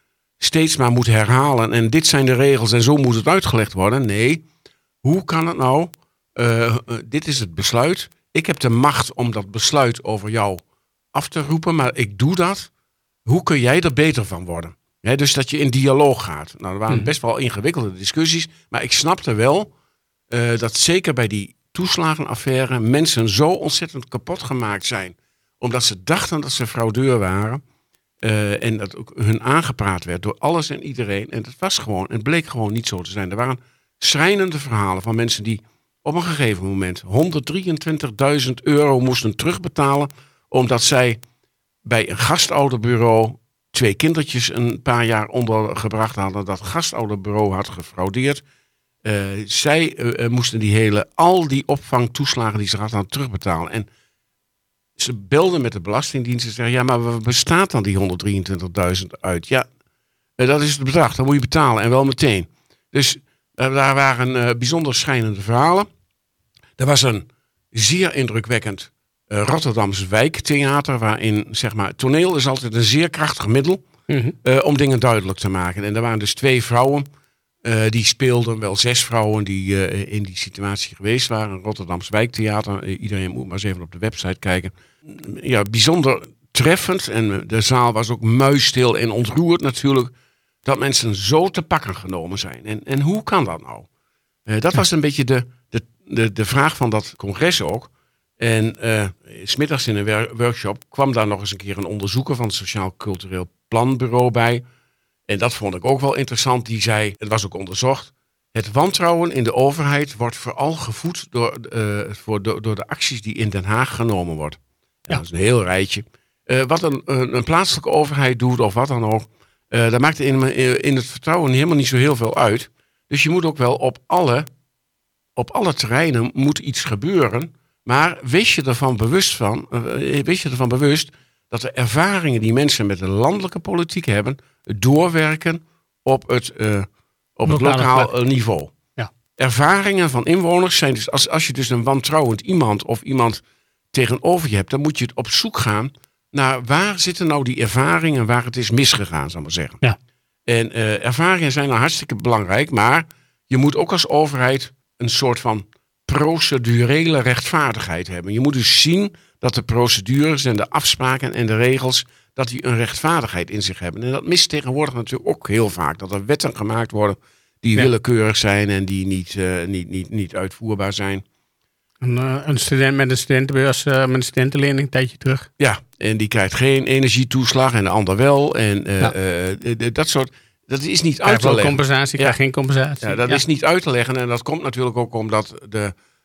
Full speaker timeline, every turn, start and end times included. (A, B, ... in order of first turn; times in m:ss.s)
0:00.4-0:04.4 A
0:05.0-0:10.6 A
0:11.1-0:12.7 A
0:13.2-0:19.7 A
0:20.3-0:27.6 A
0:28.2-0:41.2 A
0:41.8-0:48.4 A
0:49.0-0:53.9 A
0:55.0-0:59.7 A
1:00.4-1:05.9 A
1:06.8-1:13.8 A
1:14.1-1:14.3 B
1:14.4-1:17.1 A
1:17.6-1:30.1 A
1:30.6-1:33.9 A
1:34.5-1:44.6 A
1:45.3-2:04.5 A
2:05.4-2:18.7 A
2:17.4-2:18.1 B
2:19.4-2:23.4 A
2:23.9-2:29.8 A
2:30.4-2:51.2 A
2:52.0-2:55.5 B
2:55.6-3:02.4 A
3:01.2-3:03.4 B
3:03.0-3:05.9 A